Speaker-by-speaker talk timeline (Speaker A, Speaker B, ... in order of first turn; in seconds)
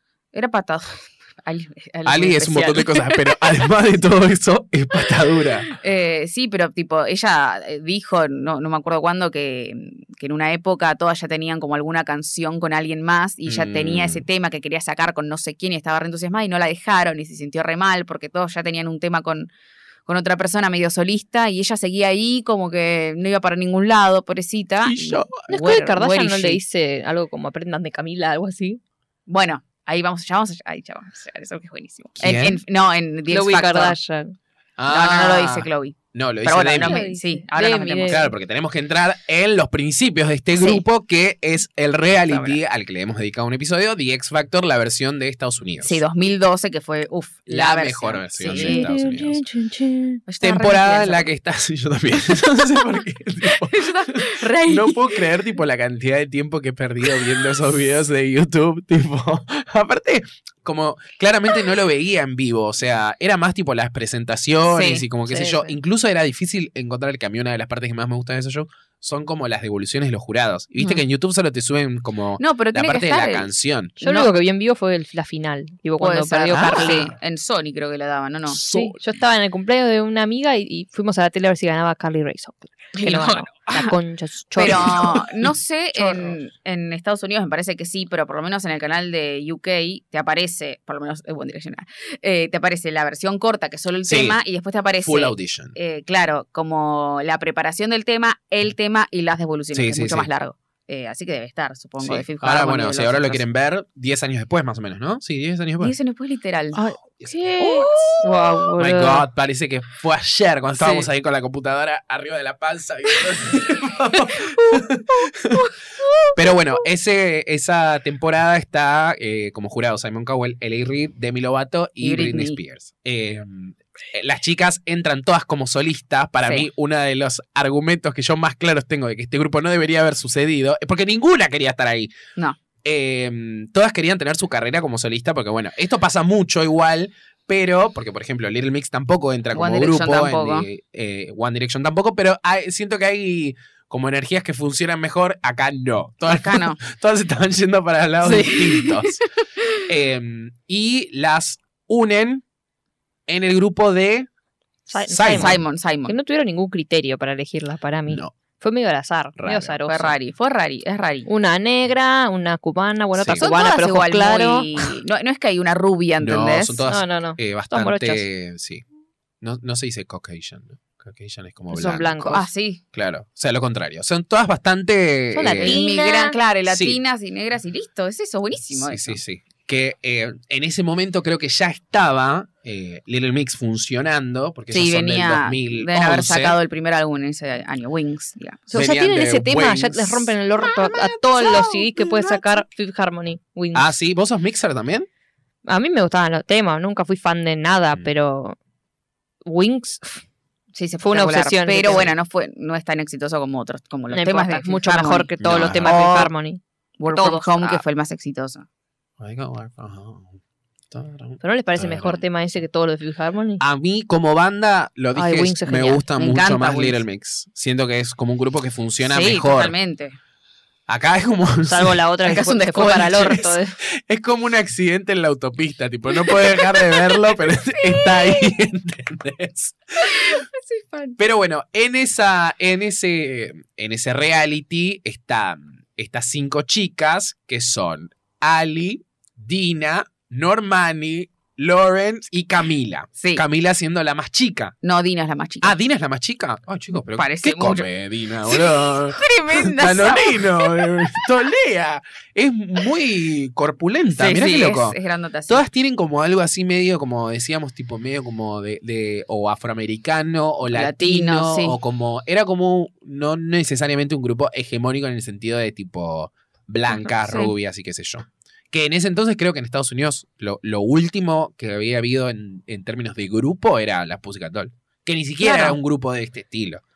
Speaker A: 0.3-3.4, 5.8-19.5, 20.1-26.6, 29.3-34.0, 34.9-38.3, 40.5-40.8, 42.3-42.6, 45.8-48.9, 50.3-51.3, 53.5-55.2, 64.7-65.1, 70.8-71.0, 72.4-74.3, 76.0-78.6, 83.0-83.9, 84.5-103.4, 105.8-106.8, 107.6-108.2, 110.8-111.1, 122.0-122.6, 139.6-140.7, 146.3-146.8, 148.2-149.1, 155.3-156.2, 159.9-161.3, 163.4-166.8, 172.2-172.8, 175.6-179.2, 184.7-188.7, 200.7-206.3, 207.0-208.7, 216.2-217.0, 219.1-220.2, 222.3-223.4, 226.3-228.6, 230.0-231.2, 244.8-245.8, 247.2-247.9, 248.5-251.3, 254.2-255.6, 260.7-261.8, 266.9-267.5, 275.4-275.8
Speaker B: 2.1-5.7, 13.5-14.2, 24.9-25.5, 32.2-32.6, 34.8-37.0, 38.1-46.0, 47.5-49.4, 50.4-74.0, 76.5-77.1, 78.5-79.2, 84.6-85.5, 94.0-94.4, 95.0-95.8, 99.7-100.3, 102.0-106.0, 107.2-108.2, 108.7-115.7, 116.3-132.1, 132.8-149.2, 149.9-152.4, 153.3-154.3, 155.1-155.6, 158.1-158.3, 159.4-159.8, 163.2-163.5, 166.2-168.8, 169.4-172.3, 172.9-175.8, 176.7-177.0, 178.8-186.6, 188.7-192.6, 193.7-195.1, 205.4-206.0, 209.2-210.3, 210.9-212.2, 213.6-219.7, 220.9-230.4, 231.2-244.8, 245.6-276.8
Speaker C: 25.5-28.8, 33.3-34.4, 36.8-38.3, 48.4-50.2, 65.3-65.8, 74.0-77.1, 78.7-85.2, 86.0-86.3, 106.8-109.2, 154.9-160.1, 161.3-164.7, 166.9-168.2, 171.7-172.5, 175.3-176.4, 188.7-193.9, 195.7-198.6, 199.4-200.2, 201.0-202.2, 204.1-207.8, 211.4-213.6, 215.2-216.0, 221.7-223.8